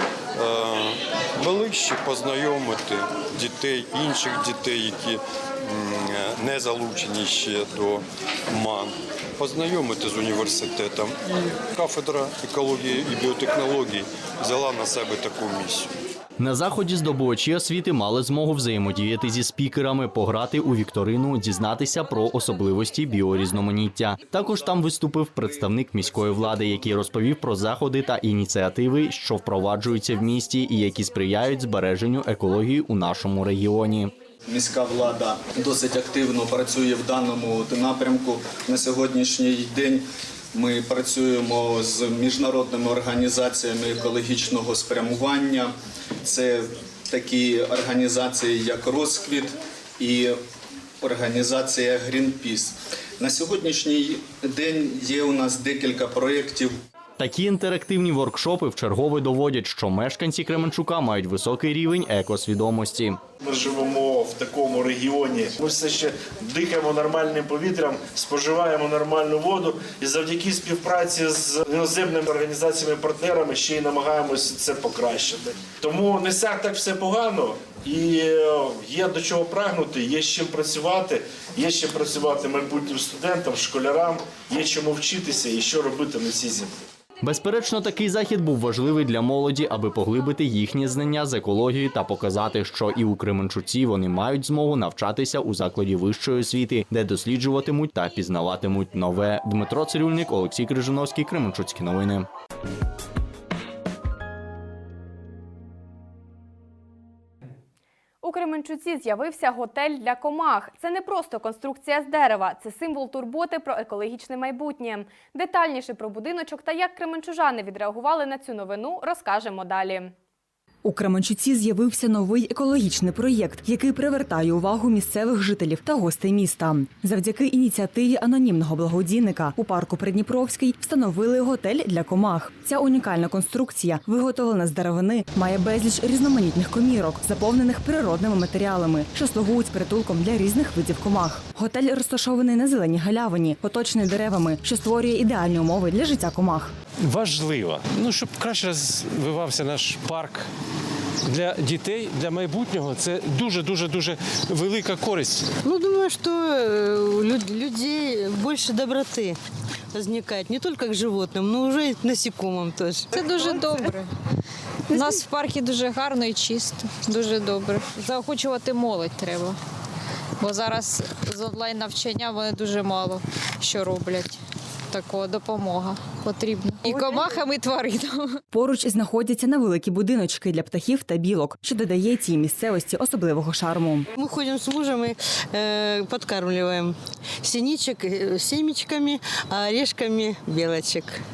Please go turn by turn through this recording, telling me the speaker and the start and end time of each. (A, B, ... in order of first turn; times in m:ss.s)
0:00.4-0:15.9 A
0:16.4-0:34.1 B
0:34.5-0:40.0 C
0:40.5-0:50.4 C
0:51.0-0:56.8 C
0:57.2-1:03.2 B
1:03.4-1:26.7 D
1:27.2-1:42.3 B
1:48.2-2:00.1 E
2:00.8-2:26.8 F
2:27.0-2:30.5 G
2:31.2-2:35.6 G
2:35.6-2:39.4 H
2:39.9-2:43.1 H
2:43.1-2:44.1 I
2:44.9-2:49.6 I
2:50.4-2:54.4 I
2:54.9-2:58.4 I
2:58.5-3:04.0 F
3:04.2-3:11.2 H